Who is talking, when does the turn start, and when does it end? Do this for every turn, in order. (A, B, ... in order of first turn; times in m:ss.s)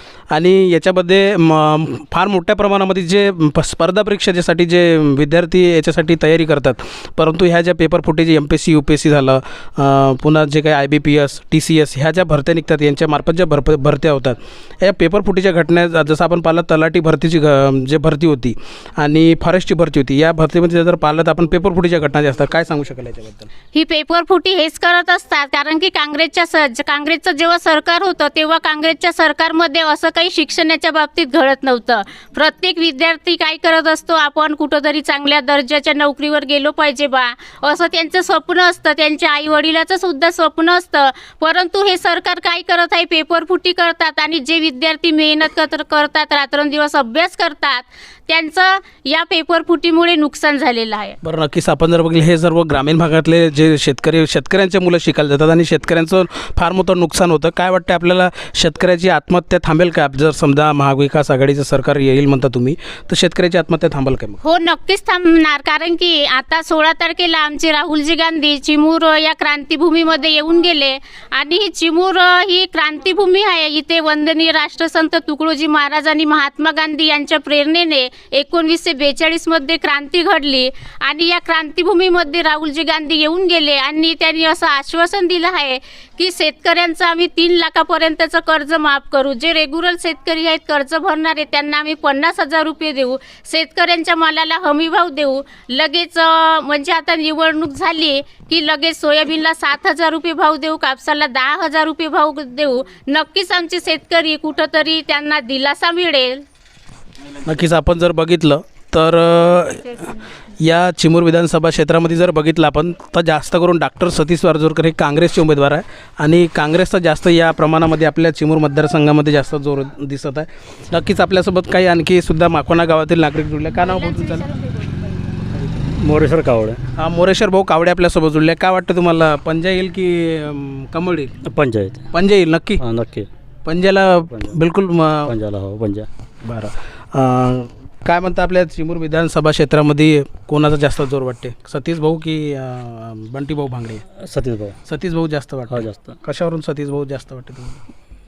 0:00.3-0:23.5 A
0:23.7-0:51.2 B
0:51.2-1:04.4 A
1:04.4-1:46.4 B
1:47.4-1:50.0 A
1:50.6-2:04.4 A
2:03.8-2:05.1 B
2:05.9-2:06.8 C
2:07.0-2:11.3 A
2:11.4-2:12.1 C
2:12.1-2:12.8 A
2:12.8-2:13.3 C
2:13.6-2:15.3 A
2:14.2-2:14.6 C
2:15.3-2:16.1 C
2:16.4-2:24.0 A
2:24.2-2:24.8 C
2:24.8-2:27.8 A
2:25.7-2:26.2 C